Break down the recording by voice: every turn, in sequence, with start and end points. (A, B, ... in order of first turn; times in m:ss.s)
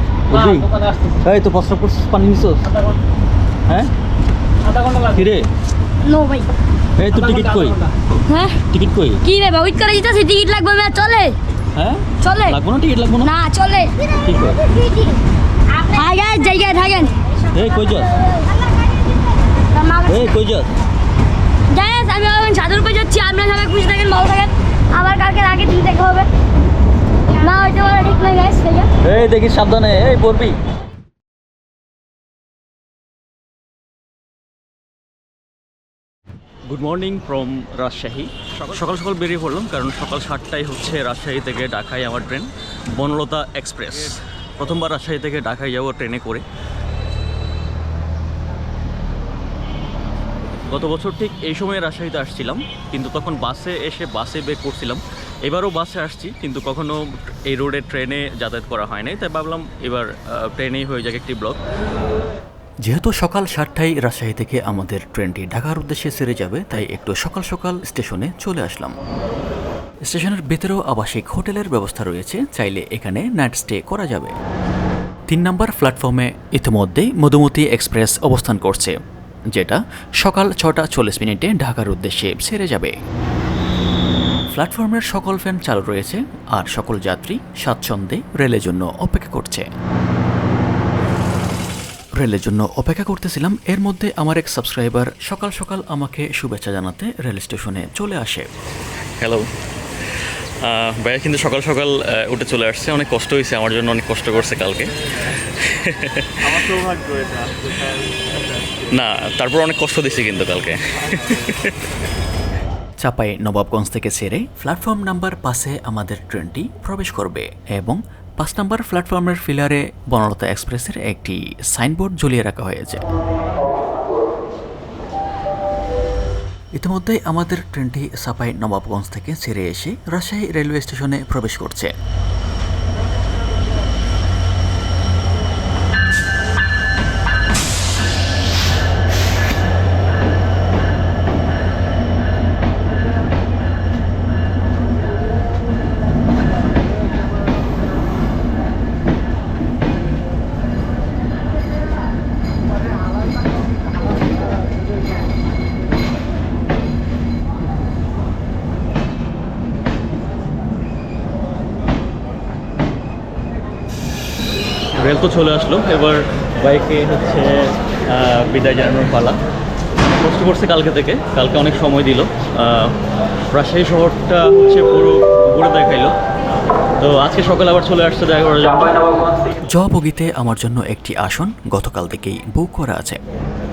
0:00.3-0:00.7 A
0:01.2-0:02.7 A
0:04.9-0:05.5 A
0:06.0-0:06.5 B
0:07.0-0:07.9 A
0:08.3-0:08.6 B
0:08.7-0:09.2 A
0:09.2-0:11.4 B
0:11.8-0:13.3 A
0:12.2-0:12.6 B
0:13.2-0:14.2 B
0:14.2-0:14.6 A
0:14.7-0:15.2 B
0:15.7-0:17.5 B
0:17.5-0:18.1 A
0:18.1-0:20.3 B
0:20.1-0:20.7 A
0:21.7-0:26.3 B
0:27.4-0:28.9 B
0:29.0-0:30.6 A
0:36.7-0:46.4 A
0:50.7-1:01.6 A
1:02.8-1:09.0 C
1:10.0-1:14.4 C
1:15.3-1:19.0 C
1:19.5-1:23.0 C
1:24.5-1:29.7 C
1:32.2-1:38.5 C
1:39.2-1:39.5 A
1:40.5-1:51.9 A
1:53.0-2:03.1 C
2:06.8-2:11.9 C
2:45.0-2:49.4 A
2:50.2-2:53.0 A
2:53.5-2:56.2 A
2:57.0-2:59.5 A
2:59.7-3:03.2 C